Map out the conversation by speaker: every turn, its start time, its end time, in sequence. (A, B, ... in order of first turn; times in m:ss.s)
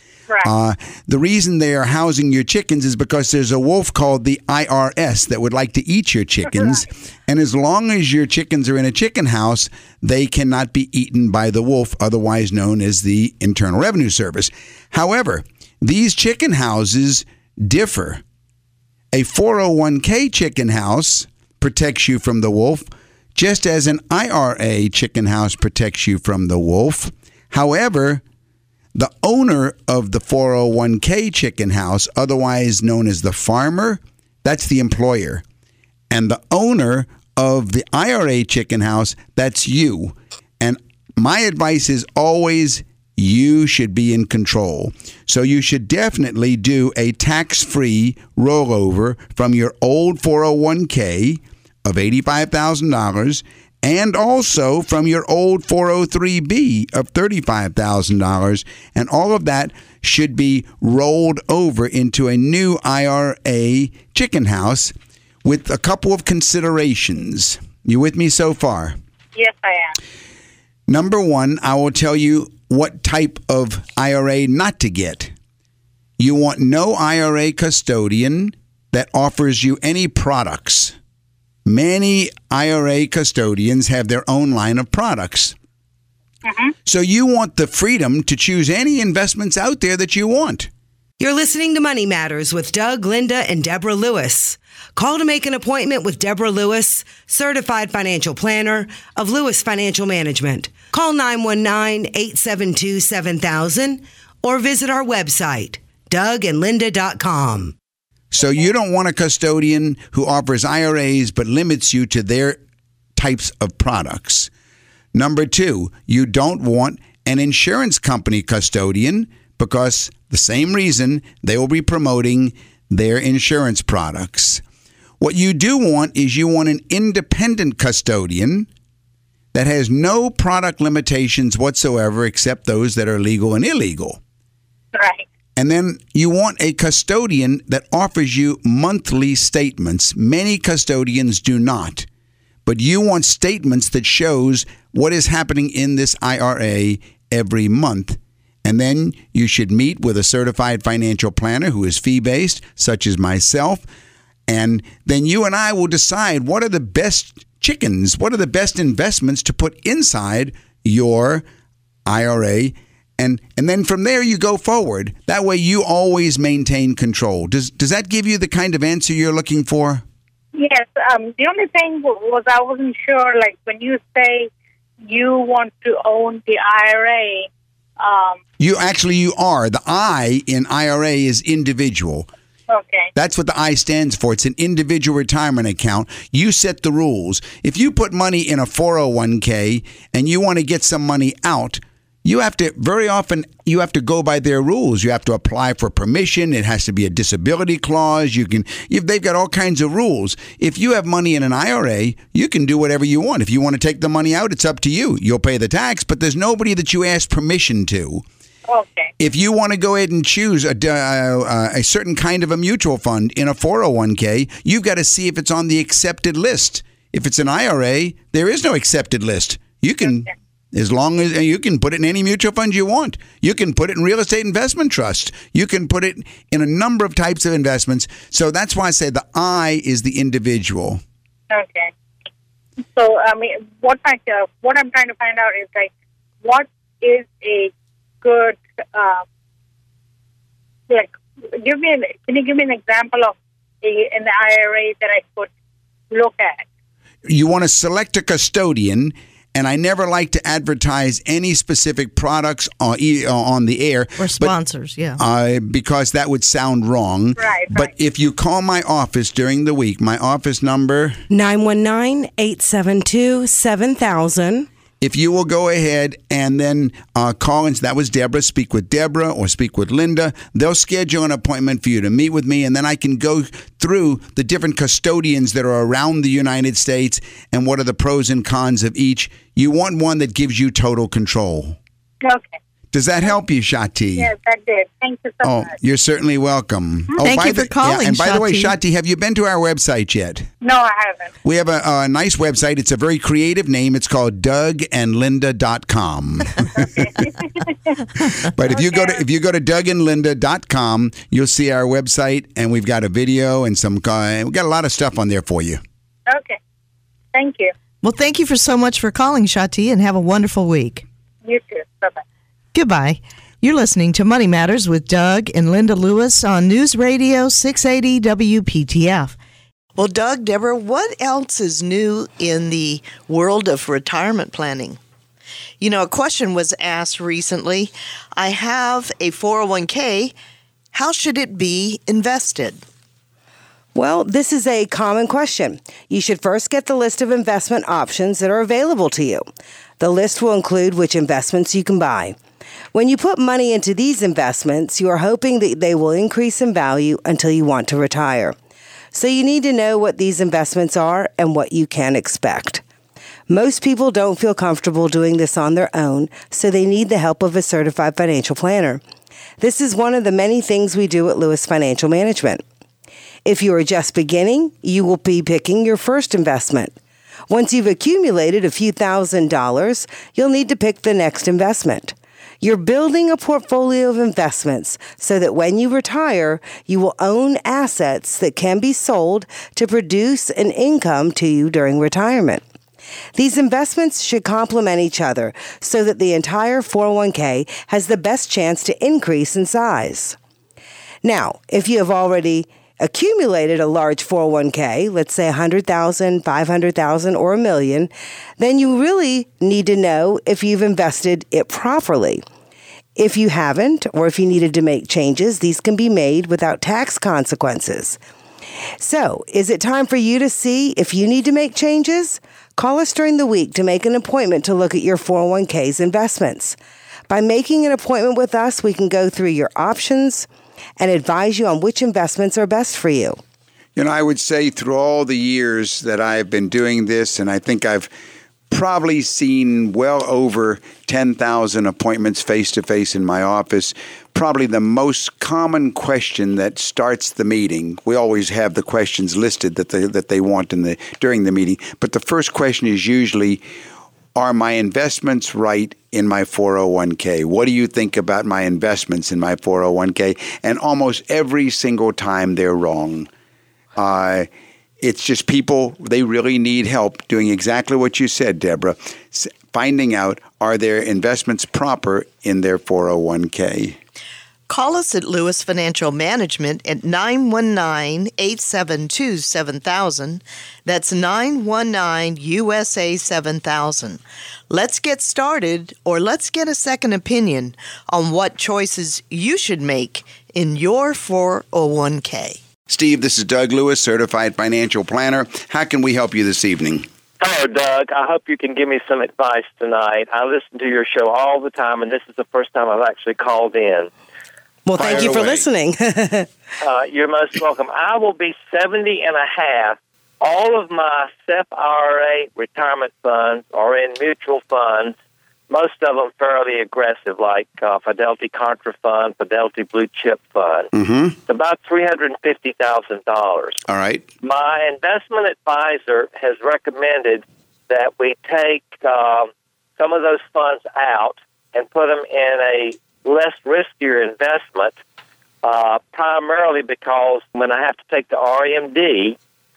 0:00.4-0:18.2 A
0:19.1-0:28.2 A
0:28.9-0:35.4 A
0:36.1-1:09.0 A
1:09.4-1:10.0 B
1:10.9-1:15.3 A
1:16.2-1:21.0 A
1:21.6-1:25.6 A
1:26.4-1:26.7 B
1:26.8-1:30.7 A
1:31.2-1:47.7 C
1:48.3-1:52.6 A
1:53.2-1:54.5 A
1:55.1-2:04.6 A
2:05.2-2:08.7 A
2:09.5-2:14.2 A
2:14.9-2:15.2 B
2:15.6-2:22.1 A
2:22.6-2:33.8 A
2:34.5-2:41.4 A
2:42.0-2:50.0 A
2:50.5-2:54.5 B
2:55.0-2:57.5 B
2:58.0-2:58.4 B
2:58.6-3:02.3 A
3:02.7-3:03.1 B
3:03.2-3:28.2 A
3:28.7-3:29.1 B
3:29.2-3:51.0 A
3:51.5-3:51.9 B
3:52.9-3:55.9 B
3:56.4-3:59.2 B
4:00.9-4:05.5 B
4:06.1-4:06.6 B
4:07.3-4:14.6 A
4:14.2-4:15.2 D
4:15.2-4:21.2 A
4:17.4-4:17.9 B
4:21.3-4:24.7 C
4:25.0-4:41.8 A
4:42.2-4:42.6 B
4:42.9-4:44.3 A
4:44.2-4:45.7 B
4:45.4-4:50.5 A
4:47.2-4:48.7 D
4:50.6-4:51.3 B
4:51.4-4:57.3 A
4:56.8-4:57.7 B
4:58.5-5:05.8 A
4:58.7-4:59.2 B
5:06.3-5:06.6 B
5:07.3-5:07.7 B
5:08.0-5:11.0 D
5:11.4-5:12.2 B
5:12.7-5:19.4 D
5:20.0-5:25.0 D
5:25.8-5:30.3 D
5:30.9-5:32.8 D
5:33.9-5:39.4 C
5:40.0-5:42.4 C
5:42.9-5:48.5 C
5:49.1-5:52.8 C
5:53.5-5:59.0 C
5:59.6-6:02.6 C
6:03.4-6:07.0 C
6:07.5-6:22.6 C
6:23.3-6:30.4 C
6:31.2-6:42.4 C
6:43.2-6:48.2 C
6:49.0-6:56.8 C
6:57.3-7:00.5 C
7:01.0-7:03.4 C
7:04.0-7:08.1 A
7:08.7-7:23.6 A
7:24.3-7:33.3 A
7:34.0-7:34.5 A
7:35.0-7:44.0 A
7:44.7-8:02.6 D
8:02.9-8:07.1 A
8:07.4-8:14.1 E
8:14.8-8:16.5 C
8:15.0-8:15.6 A
8:16.8-8:25.1 E
8:25.7-8:30.9 E
8:30.9-8:31.4 A
8:31.5-8:33.8 E
8:33.9-8:34.2 A
8:34.4-8:44.9 E
8:45.6-8:49.4 E